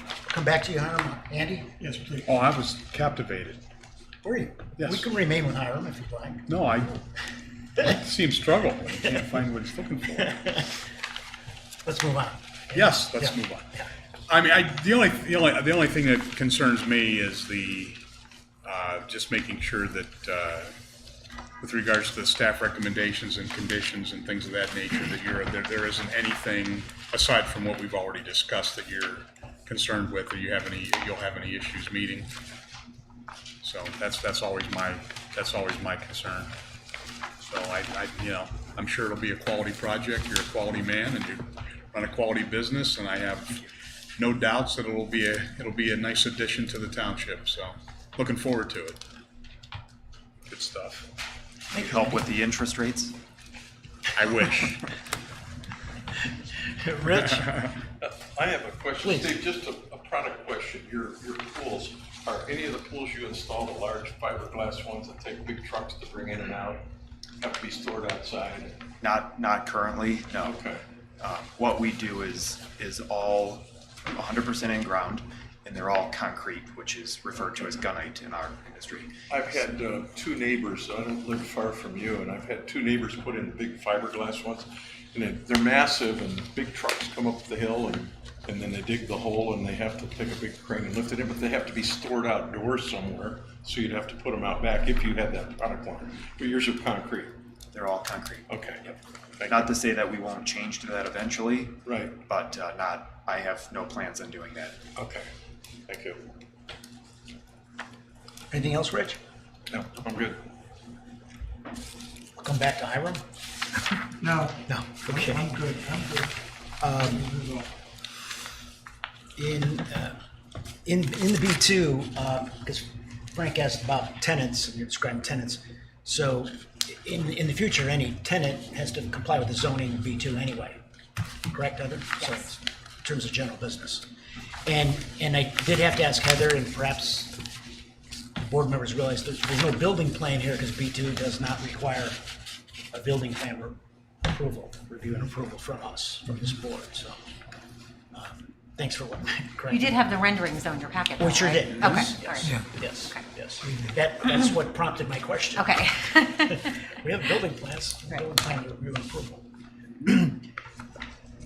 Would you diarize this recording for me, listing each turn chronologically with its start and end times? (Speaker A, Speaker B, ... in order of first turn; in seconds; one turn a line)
Speaker A: 0.2-1.8
Speaker B: 1.8-2.3
Speaker C: 2.2-3.6
Speaker A: 4.2-6.5
Speaker C: 4.8-5.1
Speaker C: 6.5-7.0
Speaker C: 7.8-10.6
Speaker A: 11.8-13.9
Speaker C: 12.7-13.7
Speaker C: 14.3-18.0
Speaker C: 18.6-20.7
Speaker C: 21.6-32.3
Speaker C: 33.6-36.5
Speaker C: 37.4-49.0
Speaker C: 50.5-51.1
Speaker A: 51.7-52.3
Speaker D: 51.7-53.1
Speaker C: 54.2-54.9
Speaker A: 56.7-57.7
Speaker C: 57.3-57.7
Speaker E: 58.0-66.8
Speaker A: 59.0-59.3
Speaker E: 67.4-68.8
Speaker D: 69.0-70.6
Speaker E: 70.4-70.8
Speaker D: 71.2-79.7
Speaker E: 79.3-97.3
Speaker D: 97.7-98.9
Speaker E: 98.5-99.7
Speaker D: 99.5-104.8
Speaker E: 101.8-102.2
Speaker E: 104.9-105.2
Speaker E: 105.9-106.3
Speaker A: 108.5-109.2
Speaker E: 109.7-110.4
Speaker A: 112.3-113.2
Speaker B: 114.2-116.3
Speaker A: 114.7-115.5
Speaker A: 116.8-117.3
Speaker B: 117.0-117.7
Speaker A: 119.3-120.2
Speaker A: 120.8-130.8
Speaker A: 131.5-134.1
Speaker F: 132.2-132.5
Speaker A: 134.6-137.4
Speaker A: 138.4-142.2
Speaker A: 142.9-147.2
Speaker A: 148.1-150.2
Speaker F: 149.7-152.5
Speaker A: 151.2-155.9
Speaker F: 155.6-156.7
Speaker A: 156.5-159.5
Speaker A: 160.0-160.4